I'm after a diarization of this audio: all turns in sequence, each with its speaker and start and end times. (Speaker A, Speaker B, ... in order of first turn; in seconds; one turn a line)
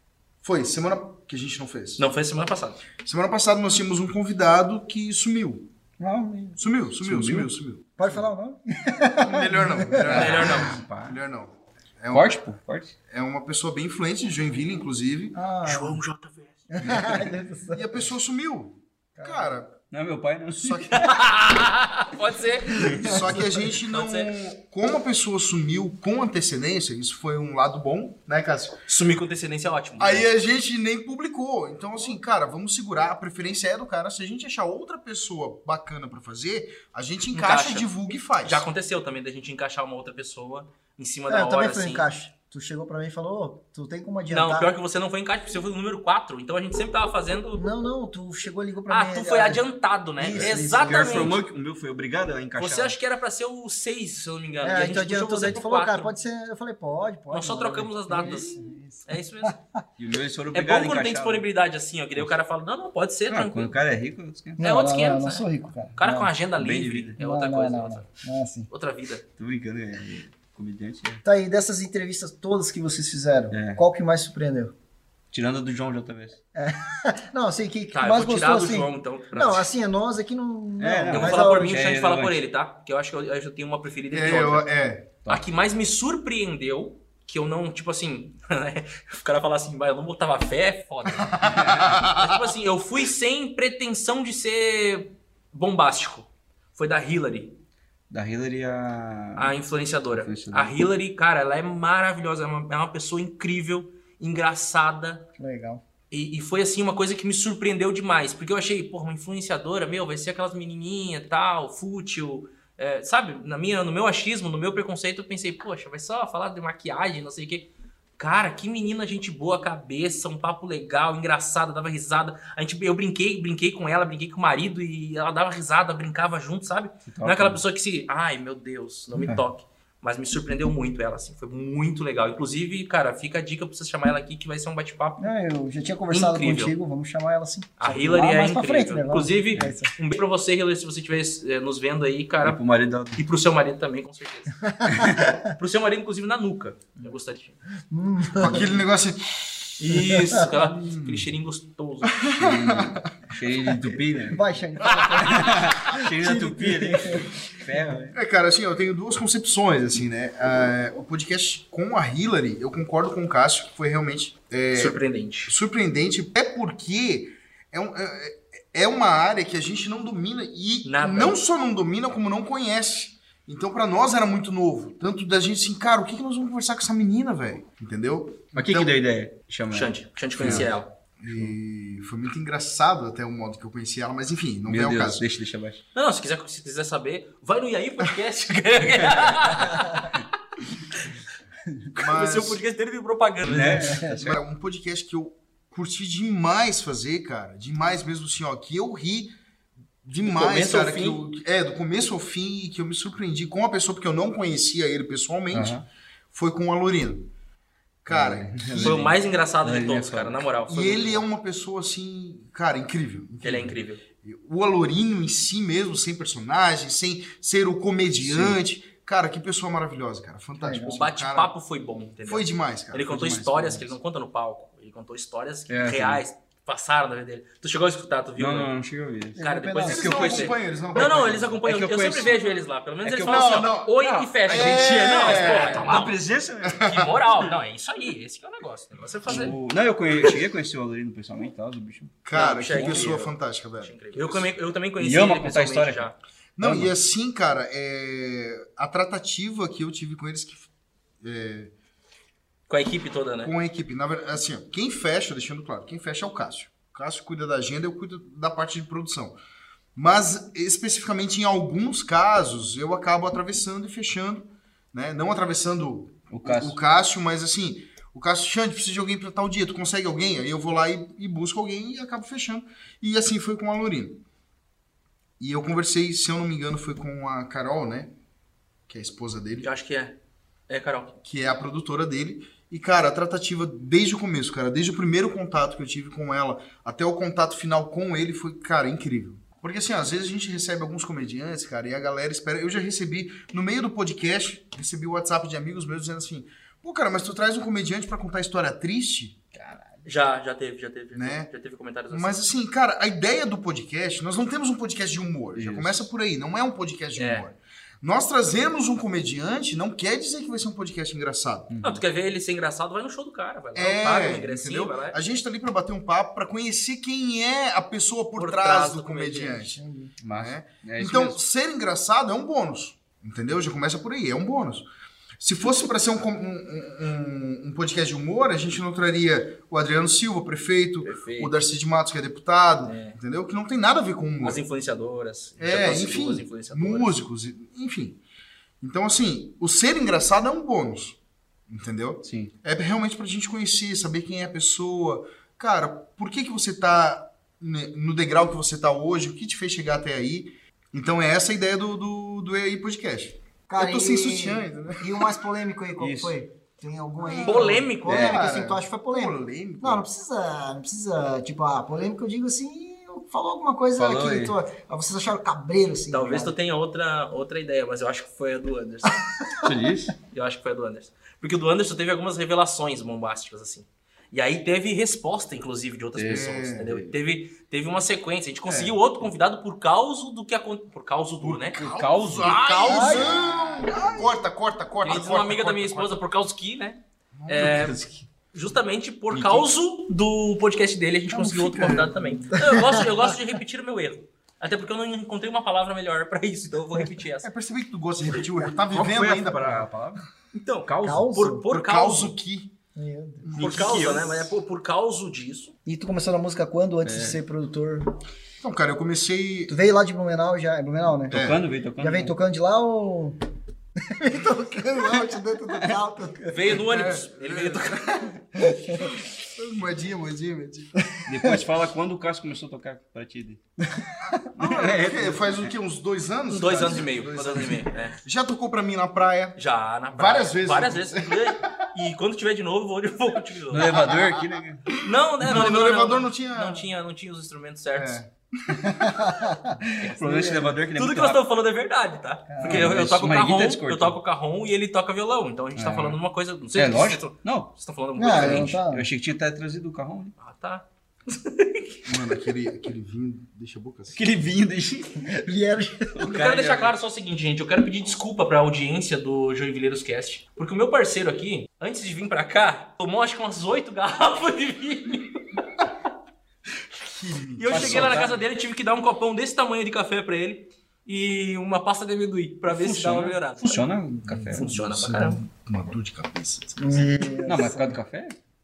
Speaker A: 0.4-2.0
Speaker B: 2.0-2.8
Speaker A: 3.0-5.7
Speaker C: 6.0-6.6
Speaker A: 6.6-7.8
Speaker D: 7.0-7.5
Speaker C: 8.0-10.1
Speaker A: 9.1-12.4
Speaker D: 10.0-11.2
Speaker B: 10.1-10.8
Speaker D: 12.1-12.9
Speaker A: 13.1-15.3
Speaker C: 15.3-16.0
Speaker B: 15.7-16.6
Speaker C: 16.7-17.8
Speaker D: 16.8-17.2
Speaker A: 17.7-19.7
Speaker C: 19.1-19.6
Speaker D: 19.9-21.1
Speaker A: 20.6-21.3
Speaker B: 20.9-23.2
Speaker A: 22.8-28.8
Speaker D: 22.8-23.1
Speaker C: 22.8-23.2
Speaker B: 23.9-24.3
Speaker B: 28.9-30.3
Speaker A: 30.0-38.6
Speaker B: 37.3-37.9
Speaker B: 38.4-42.0
Speaker C: 41.3-44.7
Speaker B: 44.3-47.6
Speaker C: 47.6-49.6
Speaker B: 48.9-51.4
Speaker C: 50.2-51.3
Speaker D: 50.2-53.0
Speaker B: 52.6-56.1
Speaker C: 54.6-59.5
Speaker B: 57.3-59.6
Speaker D: 58.2-58.5
Speaker D: 60.0-61.5
Speaker B: 60.5-63.7
Speaker D: 63.3-64.6
Speaker C: 64.6-66.3
Speaker B: 64.6-68.1
Speaker D: 66.6-67.2
Speaker C: 67.2-68.7
Speaker B: 68.7-69.2
Speaker D: 69.4-71.2
Speaker C: 71.2-74.7
Speaker D: 73.5-73.8
Speaker D: 75.3-76.4
Speaker C: 76.5-81.8
Speaker B: 77.9-79.7
Speaker D: 80.8-82.4
Speaker B: 81.1-84.7
Speaker A: 84.1-85.1
Speaker B: 85.3-97.5
Speaker A: 91.1-92.4
Speaker D: 91.4-92.0
Speaker D: 98.1-99.6
Speaker B: 99.4-105.3
Speaker D: 100.1-100.8
Speaker C: 105.4-105.8
Speaker B: 106.1-135.3
Speaker D: 127.0-127.6
Speaker C: 135.2-139.9
Speaker B: 136.1-136.7
Speaker B: 137.8-142.6
Speaker D: 142.4-143.2
Speaker B: 143.2-144.8
Speaker C: 144.7-145.3
Speaker D: 144.9-145.3
Speaker B: 145.4-147.6
Speaker C: 147.9-148.7
Speaker A: 148.4-149.8
Speaker B: 149.8-152.3
Speaker C: 150.2-150.4
Speaker A: 150.6-151.3
Speaker A: 152.0-153.1
Speaker D: 152.4-154.4
Speaker C: 154.3-157.3
Speaker B: 154.9-155.2
Speaker D: 155.2-158.2
Speaker A: 158.1-178.9
Speaker B: 164.7-165.5
Speaker B: 170.8-171.4
Speaker D: 178.5-180.7
Speaker B: 179.7-180.9
Speaker A: 180.4-185.2
Speaker D: 181.3-181.5
Speaker D: 184.7-185.8
Speaker B: 185.9-190.2
Speaker D: 189.0-189.5
Speaker B: 191.9-194.0
Speaker A: 192.0-192.6
Speaker D: 193.4-194.4
Speaker A: 193.6-199.3
Speaker C: 193.8-194.1
Speaker A: 200.0-205.8
Speaker B: 200.2-201.2
Speaker D: 205.5-205.8
Speaker A: 206.3-207.3
Speaker A: 208.0-209.0
Speaker D: 208.1-210.5
Speaker B: 208.7-211.2
Speaker A: 210.7-221.5
Speaker B: 213.4-214.0
Speaker D: 218.2-218.6
Speaker C: 220.6-221.0
Speaker B: 220.8-228.7
Speaker A: 222.2-223.4
Speaker D: 223.2-223.9
Speaker D: 225.7-226.2
Speaker D: 228.4-229.4
Speaker C: 229.4-230.5
Speaker B: 229.4-236.2
Speaker A: 229.8-231.6
Speaker D: 231.6-232.5
Speaker D: 233.0-236.9
Speaker A: 233.2-233.9
Speaker A: 234.4-236.1
Speaker A: 236.6-237.1
Speaker B: 236.8-239.6
Speaker D: 239.3-243.2
Speaker A: 242.2-244.5
Speaker B: 242.3-246.2
Speaker D: 245.0-246.1
Speaker A: 246.6-250.7
Speaker D: 246.6-246.9
Speaker A: 251.2-251.7
Speaker B: 252.7-253.5
Speaker A: 253.4-259.4
Speaker A: 259.9-274.2
Speaker D: 266.3-266.8
Speaker A: 275.4-278.1
Speaker A: 278.9-279.7
Speaker B: 279.6-280.2
Speaker B: 280.7-281.2
Speaker A: 281.2-299.4
Speaker D: 299.6-299.8
Speaker B: 300.0-302.5
Speaker A: 301.1-301.5
Speaker A: 302.1-311.7
Speaker D: 305.5-306.1
Speaker B: 307.1-307.5
Speaker D: 311.7-312.0
Speaker B: 311.8-315.2
Speaker A: 313.8-319.8
Speaker B: 318.4-319.7
Speaker C: 319.7-320.1
Speaker D: 320.2-321.4
Speaker A: 320.4-324.9
Speaker A: 325.4-334.6
Speaker B: 331.0-331.5
Speaker B: 332.8-333.2
Speaker B: 334.4-337.2
Speaker A: 335.6-338.2
Speaker A: 338.8-341.2
Speaker A: 341.7-355.4
Speaker D: 342.2-342.5
Speaker C: 353.7-366.5
Speaker D: 356.0-356.4
Speaker A: 357.2-360.1
Speaker B: 357.4-358.4
Speaker D: 358.1-358.4
Speaker D: 364.0-364.6
Speaker B: 366.1-369.2
Speaker D: 369.6-370.1
Speaker B: 370.3-381.9
Speaker D: 376.1-376.4
Speaker A: 376.3-377.1
Speaker A: 378.7-378.9
Speaker A: 381.4-386.1
Speaker D: 381.8-384.2
Speaker B: 382.4-383.4
Speaker C: 382.9-383.4
Speaker B: 385.0-388.0
Speaker A: 387.4-388.0
Speaker D: 387.7-388.2
Speaker B: 388.5-397.5
Speaker A: 389.3-389.6
Speaker A: 391.3-392.5
Speaker C: 392.5-393.0
Speaker A: 397.4-399.9
Speaker D: 398.9-400.2
Speaker B: 400.5-402.4
Speaker D: 400.9-401.3
Speaker C: 401.0-401.6
Speaker A: 401.7-402.7
Speaker C: 402.9-403.5
Speaker A: 403.4-404.5
Speaker B: 403.6-405.7
Speaker D: 403.6-404.3
Speaker C: 405.9-408.1
Speaker D: 407.0-407.4
Speaker A: 408.6-409.7
Speaker C: 409.7-411.4
Speaker D: 411.3-412.3
Speaker A: 411.3-411.6
Speaker C: 412.0-413.4
Speaker C: 414.0-416.8
Speaker B: 416.5-418.1
Speaker A: 416.9-421.0
Speaker C: 418.6-419.1
Speaker D: 421.2-423.6
Speaker A: 424.2-429.6
Speaker D: 424.5-425.7
Speaker B: 426.5-428.2
Speaker B: 429.6-434.1
Speaker A: 430.1-431.8
Speaker D: 433.7-434.9
Speaker A: 434.1-434.4
Speaker B: 435.0-438.2
Speaker A: 435.1-436.9
Speaker A: 437.9-439.3
Speaker C: 438.8-440.7
Speaker D: 439.9-441.4
Speaker B: 440.0-448.8
Speaker C: 442.5-442.9
Speaker D: 442.6-444.2
Speaker D: 445.8-446.2
Speaker D: 446.7-447.7
Speaker C: 448.2-449.1
Speaker D: 448.2-450.3
Speaker B: 450.4-452.3
Speaker A: 452.0-454.2
Speaker D: 454.1-455.3
Speaker C: 455.2-456.1
Speaker D: 456.1-456.9
Speaker B: 456.2-465.6
Speaker A: 467.0-468.3
Speaker B: 467.6-473.9
Speaker D: 467.7-468.4
Speaker D: 472.7-474.7
Speaker A: 474.2-477.0
Speaker B: 474.5-475.4
Speaker C: 476.8-478.0
Speaker D: 477.4-478.4